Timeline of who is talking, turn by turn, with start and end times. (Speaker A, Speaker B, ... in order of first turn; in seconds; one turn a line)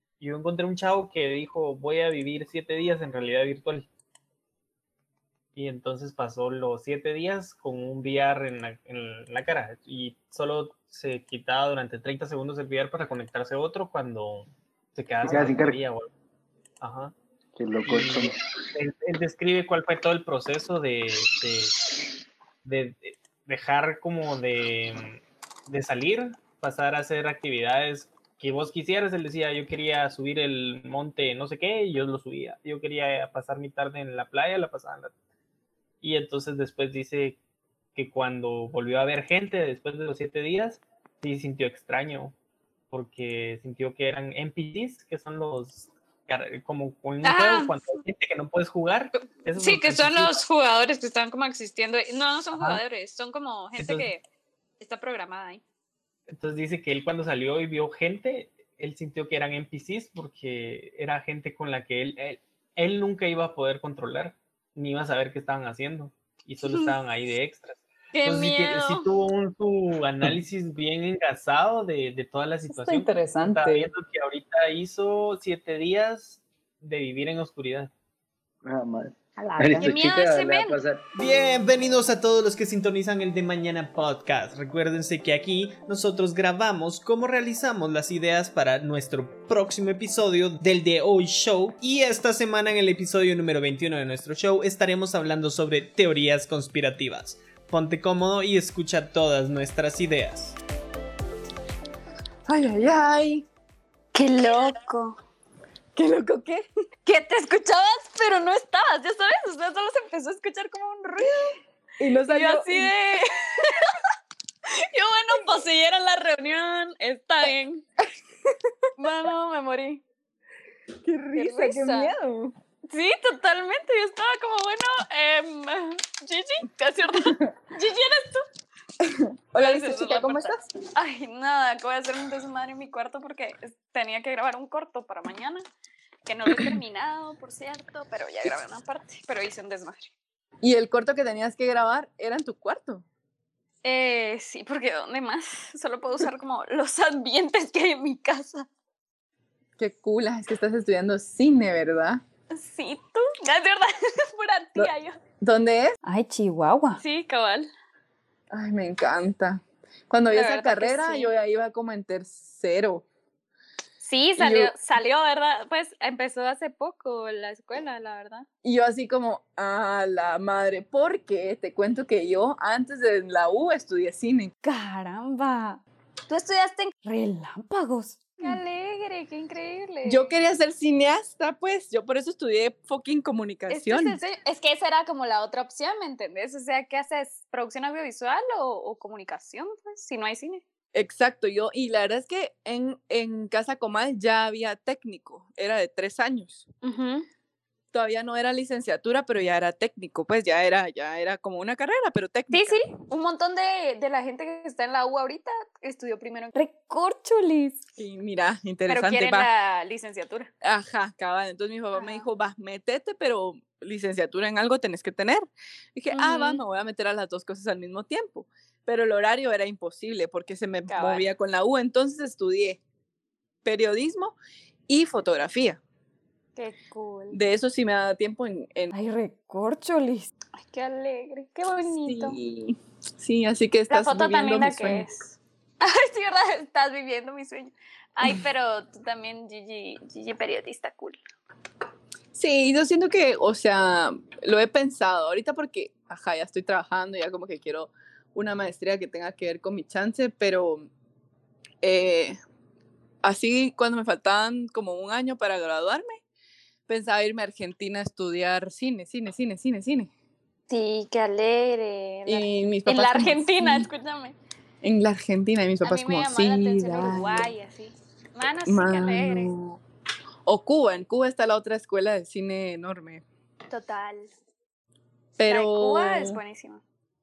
Speaker A: 0.2-3.9
Speaker A: 5.6-16.1
Speaker B: 15.2-15.8
Speaker A: 16.8-17.1
Speaker B: 17.6-18.7
Speaker A: 17.8-21.8
Speaker A: 22.6-35.1
Speaker A: 36.0-37.4
Speaker A: 38.0-42.3
Speaker A: 42.9-50.3
Speaker C: 47.2-47.8
Speaker C: 49.5-54.2
Speaker A: 52.5-52.8
Speaker A: 53.8-54.1
Speaker C: 54.8-55.6
Speaker A: 56.3-77.9
Speaker C: 66.6-66.9
Speaker C: 68.1-69.1
Speaker D: 72.7-73.9
Speaker B: 78.6-81.1
Speaker D: 79.4-80.0
Speaker C: 79.8-80.8
Speaker A: 81.1-100.6
Speaker E: 102.5-103.5
Speaker C: 104.1-105.2
Speaker E: 106.0-106.7
Speaker C: 107.0-111.6
Speaker E: 112.0-113.8
Speaker C: 112.3-114.0
Speaker C: 114.7-117.8
Speaker C: 119.0-120.0
Speaker E: 121.0-122.5
Speaker C: 121.3-122.2
Speaker C: 122.9-128.4
Speaker E: 129.0-130.7
Speaker C: 129.6-135.7
Speaker C: 136.3-140.1
Speaker E: 140.6-143.1
Speaker C: 143.8-148.7
Speaker E: 149.8-152.2
Speaker C: 152.5-155.2
Speaker E: 154.8-156.0
Speaker D: 156.2-157.0
Speaker C: 156.9-157.7
Speaker E: 158.5-163.0
Speaker C: 160.3-161.3
Speaker C: 164.0-168.5
Speaker E: 164.4-164.7
Speaker E: 168.6-174.5
Speaker C: 174.6-180.3
Speaker E: 180.0-184.2
Speaker C: 183.7-190.6
Speaker E: 190.9-196.7
Speaker C: 196.8-197.3
Speaker E: 197.9-202.9
Speaker C: 202.5-207.8
Speaker E: 208.0-209.5
Speaker C: 208.9-210.5
Speaker E: 210.6-222.8
Speaker C: 211.9-212.3
Speaker C: 216.1-216.6
Speaker C: 220.9-221.3
Speaker E: 223.7-224.3
Speaker E: 224.9-225.8
Speaker C: 226.6-227.4
Speaker E: 227.3-228.9
Speaker C: 228.9-232.4
Speaker E: 231.9-235.1
Speaker C: 233.9-241.2
Speaker E: 242.3-250.9
Speaker E: 251.8-252.4
Speaker E: 253.2-256.2
Speaker E: 256.9-260.1
Speaker C: 260.7-264.4
Speaker E: 262.3-263.9
Speaker E: 264.8-267.5
Speaker C: 265.8-269.5
Speaker E: 268.7-269.8
Speaker E: 270.5-273.2
Speaker C: 273.7-274.3
Speaker E: 275.4-276.4
Speaker C: 275.5-276.8